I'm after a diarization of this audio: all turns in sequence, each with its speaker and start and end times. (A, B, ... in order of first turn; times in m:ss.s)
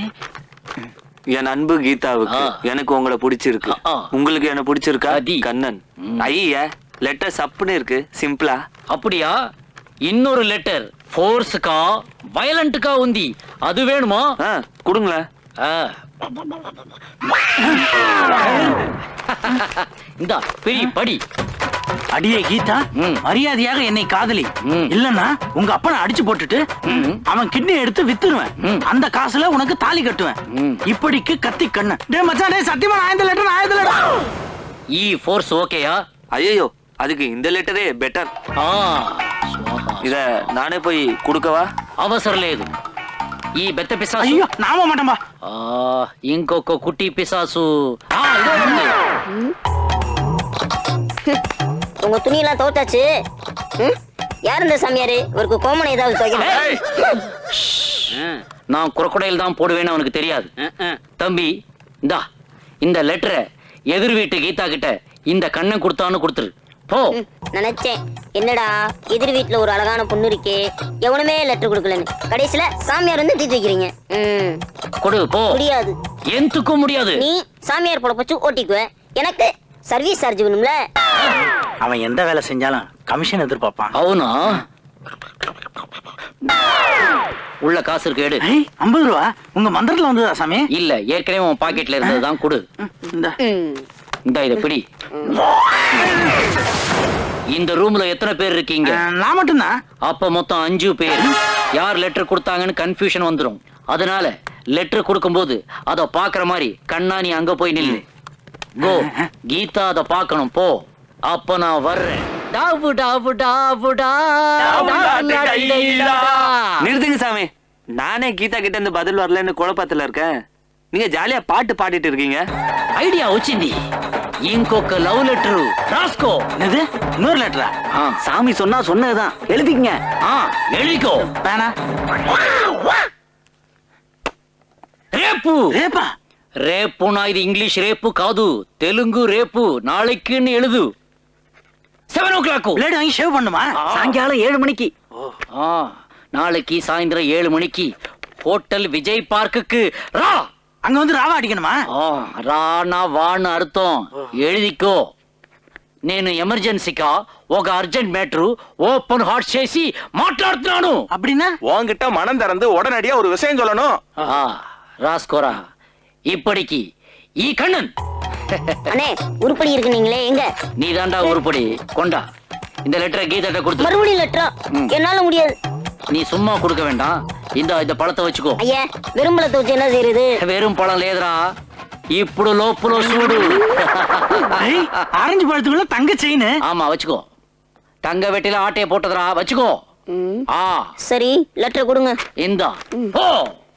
0:01.3-0:08.6 A
0:03.6-0:04.1 B
0:05.1-0:05.5 B
0:06.0-0:06.3 B
0:08.9-0:09.3 B
0:10.0-0:14.2 B
0:14.4-0:15.2 A
0:15.6-0:15.9 B
0:18.0-0:18.7 B
0:19.3-0:21.2 B
0:22.1-0:34.0 C
0:23.0-0:23.2 B
0:26.9-0:27.2 B
0:30.5-0:30.8 B
0:34.9-0:36.0 B
0:36.3-0:38.3 A
0:38.6-0:40.2 B
0:40.0-0:41.6 A
0:42.0-0:42.6 B
0:43.6-0:44.5 B
0:44.2-0:45.2 C
0:45.5-0:48.9 B
0:49.3-0:49.5 D
0:52.0-0:53.1 D
0:53.8-0:57.2 D
0:56.5-0:56.8 E
0:57.6-0:57.9 B
0:58.7-1:00.5 B
1:01.2-1:01.5 B
1:02.8-1:03.4 B
1:03.9-1:07.2 B
1:07.1-1:14.6 D
1:15.0-1:15.6 B
1:15.5-1:16.0 D
1:16.3-1:17.2 B
1:17.2-1:20.8 D
1:21.8-1:23.9 C
1:23.9-1:24.6 B
1:27.6-1:28.4 B
1:28.4-1:30.7 C
1:30.7-1:32.6 B
1:33.1-1:33.4 C
1:33.4-1:33.8 D
1:34.2-1:34.8 B
1:37.5-1:39.0 B
1:38.8-1:39.7 C
1:40.1-1:48.0 B
1:48.8-1:56.9 B
1:54.6-1:56.4 E
1:56.8-2:00.3 A
2:00.9-2:02.4 A
2:03.0-2:03.8 B
2:04.5-2:06.4 B
2:06.6-2:07.7 C
2:08.2-2:09.9 C
2:10.2-2:11.2 B
2:11.4-2:11.7 C
2:15.1-2:15.8 B
2:15.7-2:16.1 C
2:16.6-2:20.9 B
2:22.1-2:22.8 B
2:22.8-2:24.9 C
2:23.8-2:24.2 B
2:25.6-2:27.9 B
2:28.4-2:30.4 B
2:30.8-2:31.8 C
2:31.9-2:35.0 B
2:36.1-2:41.0 B
2:41.1-2:41.5 C
2:41.7-2:44.0 E
2:44.2-2:45.6 B
2:46.3-2:46.8 B
2:47.4-2:47.9 B
2:48.9-2:50.5 D
2:50.8-2:52.2 B
2:52.8-2:53.9 B
2:53.8-2:55.5 D
2:56.1-2:58.6 B
2:58.6-3:00.3 D
3:00.4-3:01.4 B
3:02.1-3:04.6 B
3:03.2-3:03.6 D
3:04.6-3:06.5 C
3:06.6-3:07.2 B
3:08.0-3:09.8 B
3:10.1-3:10.4 D
3:10.5-3:10.9 B
3:11.0-3:12.2 D
3:12.4-3:13.5 B